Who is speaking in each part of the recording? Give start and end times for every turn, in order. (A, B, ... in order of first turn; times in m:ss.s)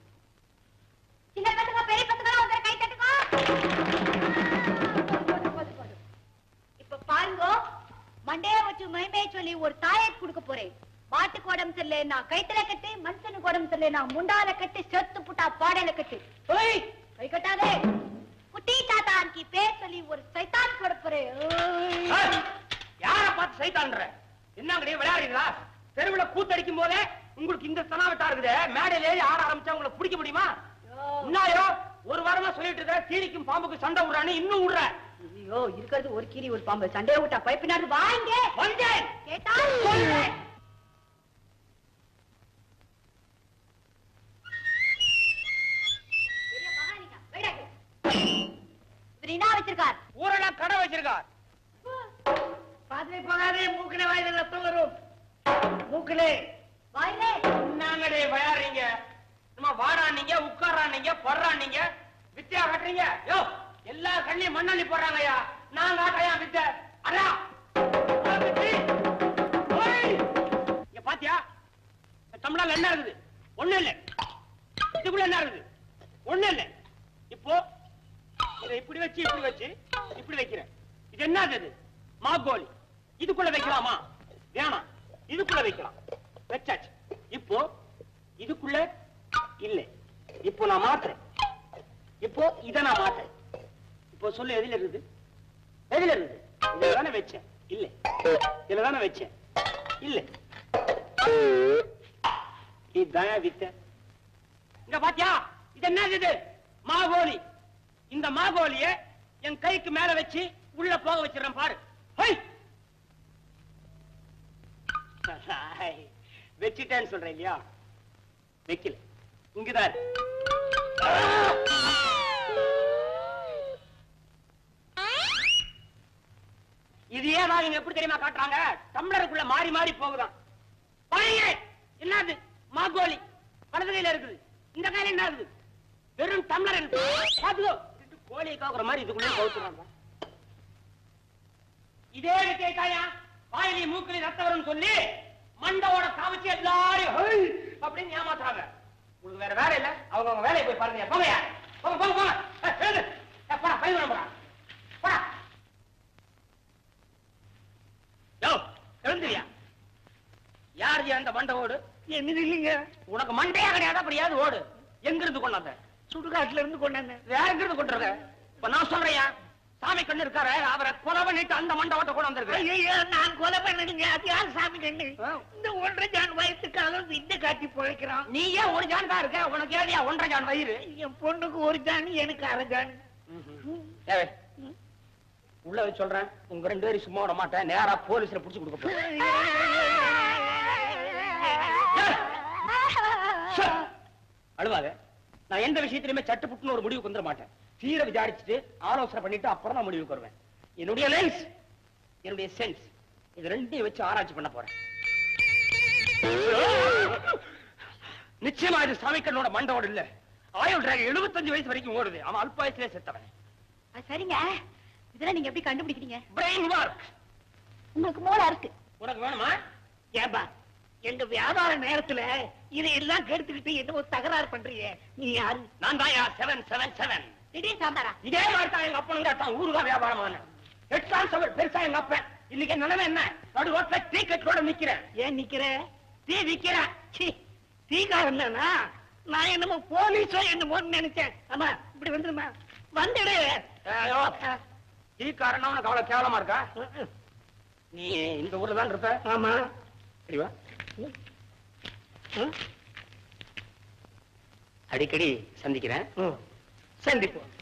0:01.4-0:03.3 A
0:04.4-0:06.0 A
0:06.8-0:07.6 A
0:08.3-0:16.2 A
0:16.5-0:16.8 B
0:17.2-0:17.8 A
0:18.5-0:22.2 A
0:22.1-0:22.4 B
0:23.0-0:30.5 B
0:30.9-0:31.3 A
0:31.2-0:34.9 B
0:35.3-0:38.5 A
0:38.6-0:39.1 B
0:39.2-0:40.2 A
0:39.8-0:40.3 B
0:46.5-0:47.7 A
0:49.2-0:50.0 A
0:50.2-0:51.3 B
0:52.9-0:55.0 C
0:55.9-0:56.3 C
0:56.9-0:57.4 A
0:57.5-0:58.9 B
0:59.6-1:01.8 B
1:02.4-1:07.4 B
1:08.2-1:08.8 B
1:09.7-1:10.2 B
1:10.9-1:11.4 B
1:12.3-1:14.0 B
1:14.9-1:15.6 B
1:16.3-1:16.7 B
1:17.3-1:17.6 B
1:18.6-1:26.0 B
1:26.5-1:27.7 B
1:28.4-1:28.8 B
1:29.6-1:29.9 B
1:30.4-1:31.2 B
1:32.2-1:33.3 B
1:34.1-1:35.0 B
1:35.9-1:37.9 B
1:38.7-1:39.3 B
1:42.9-1:43.7 B
1:44.9-1:47.4 B
1:48.1-1:48.9 B
1:49.4-1:52.4 B
1:55.3-1:56.1 B
1:56.6-1:57.6 B
1:58.7-1:59.0 B
1:59.6-2:00.0 B
2:01.1-2:01.4 B
2:07.1-2:10.3 B
2:11.1-2:13.2 B
2:13.7-2:15.5 B
2:16.2-2:19.9 B
2:22.1-2:25.0 B
2:25.6-2:28.7 B
2:29.2-2:34.3 B
2:38.4-2:39.5 B
2:40.8-2:41.8 B
2:42.1-2:42.9 C
2:43.1-2:45.8 B
2:46.1-2:47.2 C
2:47.3-2:49.3 B
2:49.8-2:52.7 B
2:52.5-2:58.3 C
2:58.3-3:00.8 B
3:00.8-3:03.0 C
3:03.3-3:04.3 B
3:05.7-3:09.0 B
3:09.1-3:11.7 C
3:11.9-3:12.2 B
3:13.4-3:13.9 B
3:14.6-3:14.9 B
3:15.5-3:21.5 B
3:22.2-3:24.7 B
3:26.4-3:27.4 B
3:28.4-3:33.3 B
3:34.0-3:34.6 A
3:35.1-3:36.2 A
3:36.3-3:37.1 B
3:38.0-3:38.7 A
3:39.0-3:39.6 B
3:40.2-3:40.5 C
3:41.1-3:45.7 C
3:45.8-3:47.3 B
3:47.5-3:48.2 A
3:48.2-3:55.0 B
3:55.2-3:55.7 C
3:56.3-3:56.9 B
3:56.8-3:57.4 C
3:57.9-3:58.7 C
3:59.3-4:03.7 C
4:03.9-4:04.5 B
4:05.2-4:06.6 B
4:06.8-4:07.1 C
4:07.9-4:09.2 B
4:09.2-4:09.6 C
4:14.9-4:16.1 B
4:17.1-4:17.4 C